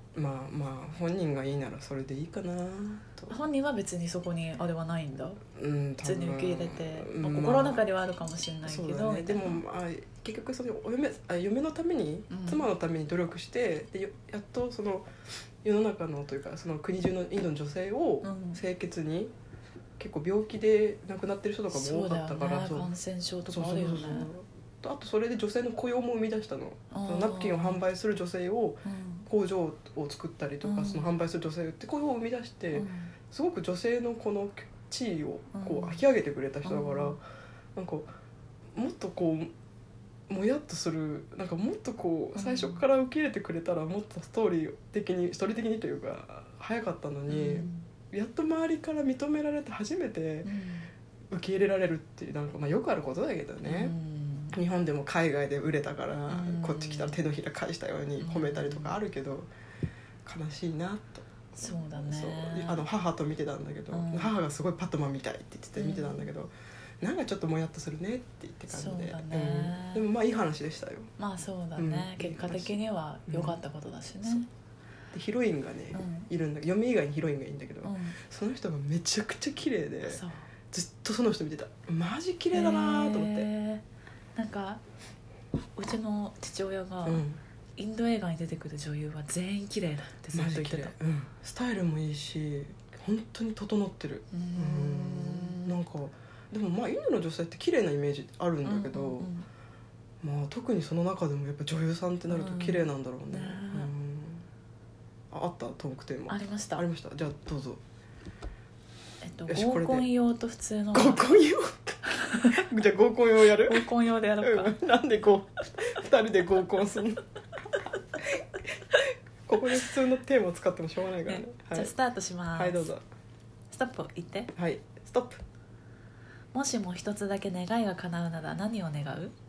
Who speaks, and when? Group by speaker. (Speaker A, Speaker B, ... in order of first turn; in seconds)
Speaker A: 0.1-3.4, 5.5-7.8, 8.6-15.1, 15.6-19.3, 20.0-22.9, 23.4-37.2, 37.7-38.1, 38.7-39.5, 40.3-50.5, 51.3-54.0, 54.5-59.5, 60.2-71.1, 71.8-72.8, 73.3-73.6, 75.1-83.5, 87.0-87.4, 90.3-99.3, 100.2-104.4, 105.3-107.8, 109.5-110.0, 110.9-112.0, 112.5-113.8, 114.4-117.2, 118.1-118.4, 118.9-121.9, 122.5-123.0, 124.5-125.4
Speaker B: 3.3-5.4, 6.0-9.6, 12.3-12.7, 18.2-18.6, 21.7-24.3, 26.9-27.8, 28.8-29.3, 30.6-31.2, 32.7-33.1, 35.5-36.0, 36.6-37.2, 42.3-42.8, 47.3-47.9, 50.4-50.9, 53.6-54.6, 56.3-57.2, 58.2-59.0, 61.6-62.8, 63.9-64.3, 65.8-66.3, 68.7-70.0, 71.2-74.5, 75.9-76.3, 77.8-78.2, 80.0-80.5, 82.5-83.8, 84.3-84.8, 85.8-87.2, 87.8-90.9, 94.3-95.8, 98.6-99.5, 102.3-103.9, 106.3-106.8, 109.2-111.3, 112.0-112.6, 113.5-114.8, 121.2-122.9, 123.7-124.5, 126.5-129.3